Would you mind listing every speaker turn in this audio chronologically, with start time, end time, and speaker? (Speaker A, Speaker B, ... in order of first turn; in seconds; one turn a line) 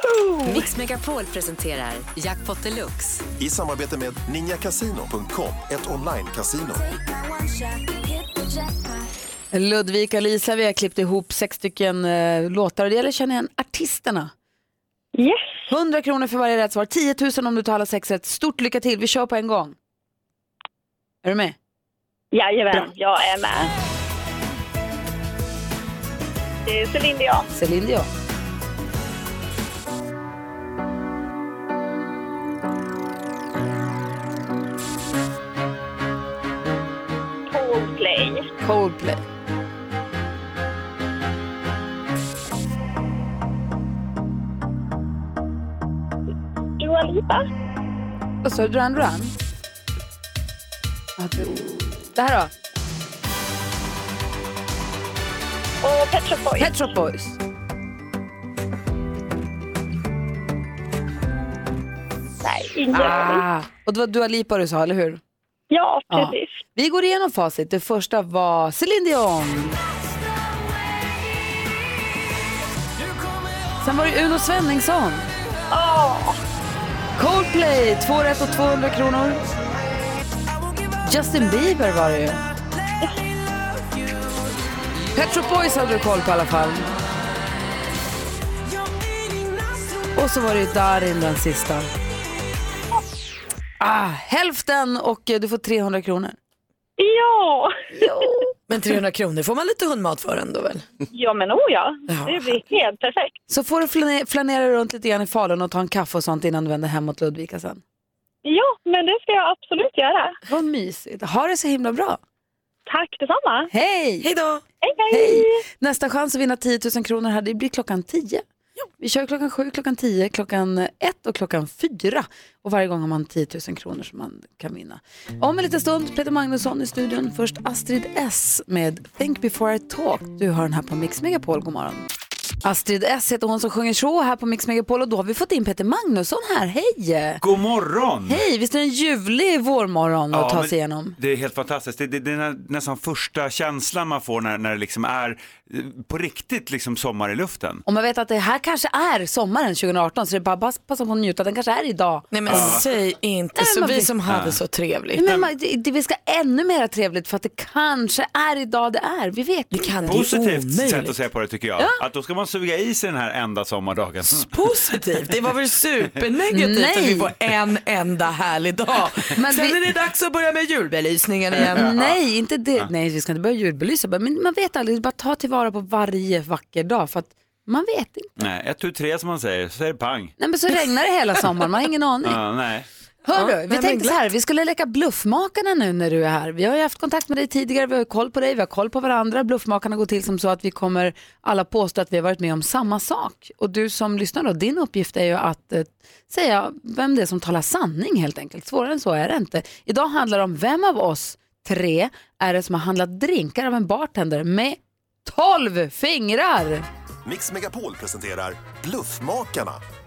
Speaker A: 0.5-3.2
Speaker B: 3.4-6.8
Speaker C: 9.5-14.3
Speaker D: 15.2-15.6
Speaker C: 15.7-19.8
Speaker C: 21.2-21.5
Speaker D: 22.3-23.7
Speaker D: 26.6-27.5
Speaker C: 27.5-28.1
Speaker D: 37.5-38.5
Speaker C: 38.6-39.2
Speaker D: 46.8-47.4
Speaker C: 48.4-49.3
Speaker C: 51.2-52.5
Speaker D: 55.8-56.7
Speaker C: 56.6-57.4
Speaker D: 62.4-63.4
Speaker C: 62.9-65.2
Speaker D: 65.7-66.6
Speaker C: 66.1-69.7
Speaker C: 73.8-75.2
Speaker D: 75.7-76.4
Speaker C: 77.2-79.4
Speaker C: 81.0-82.4
Speaker C: 85.1-86.9
Speaker C: 90.1-91.9
Speaker C: 93.8-96.3
Speaker D: 97.0-98.1
Speaker C: 97.9-98.4
Speaker E: 98.7-100.8
Speaker D: 101.1-103.3
Speaker E: 102.1-102.5
Speaker C: 103.5-107.8
Speaker D: 108.4-110.3
Speaker C: 110.5-112.2
Speaker D: 112.9-113.7
Speaker C: 113.7-114.2
Speaker E: 114.2-114.6
Speaker D: 114.8-115.6
Speaker C: 115.1-118.4
Speaker C: 119.0-132.1
Speaker C: 132.6-137.4
Speaker F: 137.4-138.4
Speaker C: 138.3-141.2
Speaker F: 140.3-147.8
Speaker C: 147.8-152.8
Speaker E: 152.3-155.3
Speaker F: 152.5-152.8
Speaker C: 153.6-154.1
Speaker F: 154.3-154.6
Speaker C: 155.2-160.2
Speaker E: 159.7-161.2
Speaker F: 160.1-164.5
Speaker E: 164.5-171.9
Speaker C: 166.5-167.3
Speaker C: 169.4-169.8
Speaker C: 171.6-178.3
Speaker F: 171.7-172.2
Speaker F: 178.4-180.3
Speaker C: 180.4-182.4
Speaker F: 182.2-182.9
Speaker C: 183.2-206.8
Speaker E: 183.3-184.2
Speaker B: 207.2-209.8